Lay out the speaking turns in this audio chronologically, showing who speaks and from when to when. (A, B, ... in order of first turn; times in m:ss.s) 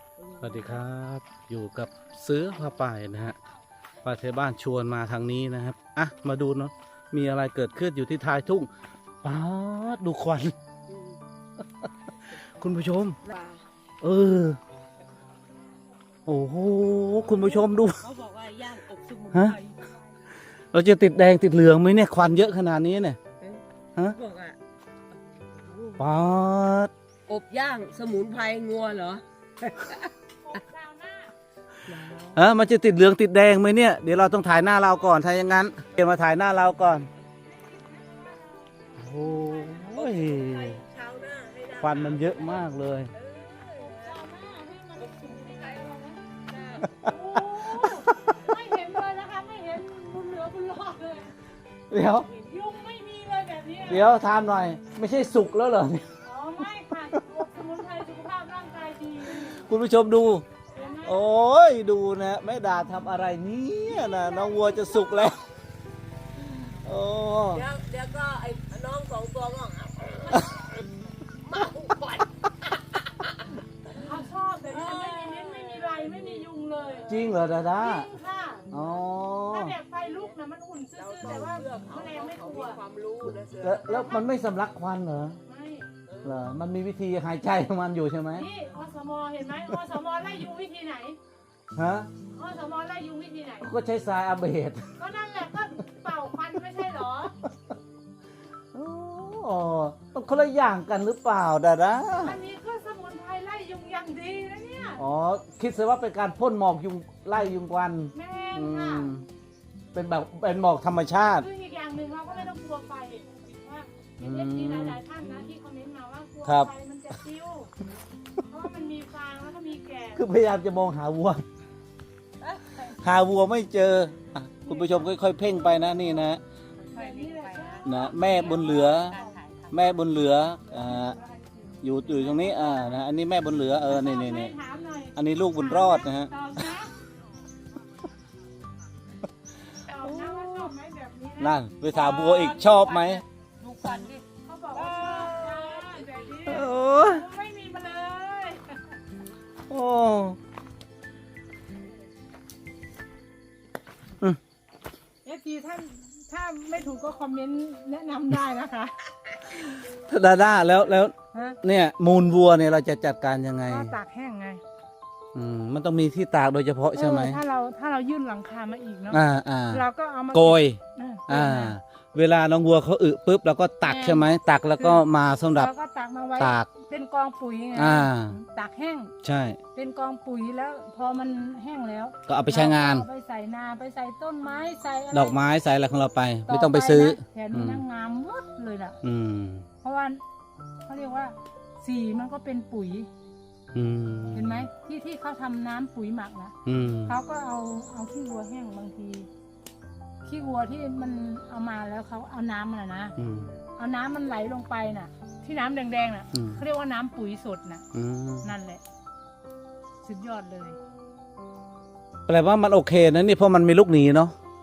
0:00.2-0:00.8 A
0:00.4-0:03.4 B
0:04.0-0:08.7 B
0:09.2-0:10.5 B
0:10.9-0:11.2 A
0:11.8-0:13.2 B
0:13.2-0:13.6 A
0:14.0-0:14.6 B
0:16.3-0:18.0 B
0:17.2-0:19.9 A
0:19.3-0:19.6 B
0:20.7-0:23.2 B
0:23.4-0:24.6 A
0:25.3-0:26.1 A
0:26.0-0:26.9 B
0:27.3-0:30.1 A
0:30.4-0:31.3 C
0:31.8-0:32.4 A
0:32.4-0:37.1 B
0:34.6-0:35.1 C
0:37.4-0:39.9 C
0:39.0-0:40.8 B
0:39.9-0:44.2 A
0:41.8-0:43.1 B
0:43.6-0:46.2 C
0:45.0-0:47.0 A
0:47.0-0:51.3 C
0:47.7-0:48.1 B
0:51.9-0:52.3 B
0:52.2-0:52.6 A
0:52.4-0:54.1 C
0:53.9-0:56.1 B
0:56.2-0:59.6 C
0:59.3-1:00.5 B
1:00.8-1:01.3 C
1:01.0-1:05.4 B
1:03.9-1:05.3 C
1:06.7-1:07.7 B
1:07.5-1:13.3 A
1:14.0-1:18.7 C
1:14.7-1:17.2 A
1:17.1-1:18.1 B
1:18.7-1:19.0 A
1:18.7-1:19.8 B
1:19.5-1:22.8 C
1:20.0-1:20.4 A
1:21.0-1:24.1 A
1:23.5-1:25.4 B
1:23.9-1:24.3 C
1:25.4-1:25.9 C
1:26.1-1:26.5 A
1:26.2-1:28.5 B
1:28.3-1:31.2 C
1:31.8-1:32.1 B
1:32.3-1:33.7 C
1:33.6-1:34.9 B
1:35.0-1:37.4 C
1:38.7-1:42.4 B
1:42.2-1:45.0 C
1:45.0-1:49.3 B
1:48.1-1:49.1 C
1:49.9-1:51.5 B
1:51.4-1:57.7 C
1:54.2-1:55.0 B
1:56.4-1:56.7 B
1:58.5-2:00.3 C
2:00.2-2:01.4 B
2:02.4-2:03.0 A
2:02.8-2:06.4 B
2:04.7-2:06.2 C
2:06.8-2:10.0 A
2:06.9-2:09.4 C
2:07.8-2:09.2 B
2:09.7-2:11.2 B
2:10.7-2:13.0 C
2:11.8-2:14.6 B
2:13.9-2:16.9 C
2:15.2-2:16.3 B
2:19.8-2:22.5 C
2:20.0-2:20.7 B
2:21.4-2:23.2 B
2:22.4-2:26.6 A
2:24.3-2:28.8 C
2:26.5-2:27.3 B
2:29.7-2:30.4 B
2:35.2-2:39.6 C
2:39.9-2:43.9 B
2:41.3-2:41.6 C
2:43.6-2:44.6 C
2:45.3-2:47.4 B
2:46.9-2:51.8 C
2:49.1-2:55.7 B
2:53.8-2:59.1 C
2:56.4-2:56.7 B
2:57.8-2:58.4 B
2:59.2-2:59.6 B
2:59.8-3:05.4 C
3:02.3-3:03.1 B
3:05.1-3:07.8 B
3:06.5-3:09.0 C
3:09.0-3:09.7 B
3:09.8-3:10.2 C
3:10.9-3:13.1 C
3:13.7-3:14.7 B
3:14.3-3:19.3 C
3:16.7-3:17.2 B
3:20.2-3:23.2 C
3:23.2-3:23.5 B
3:23.8-3:27.8 C
3:26.3-3:26.6 B
3:27.9-3:28.5 B
3:28.4-3:28.8 C
3:30.0-3:30.8 C
3:32.3-3:34.3 B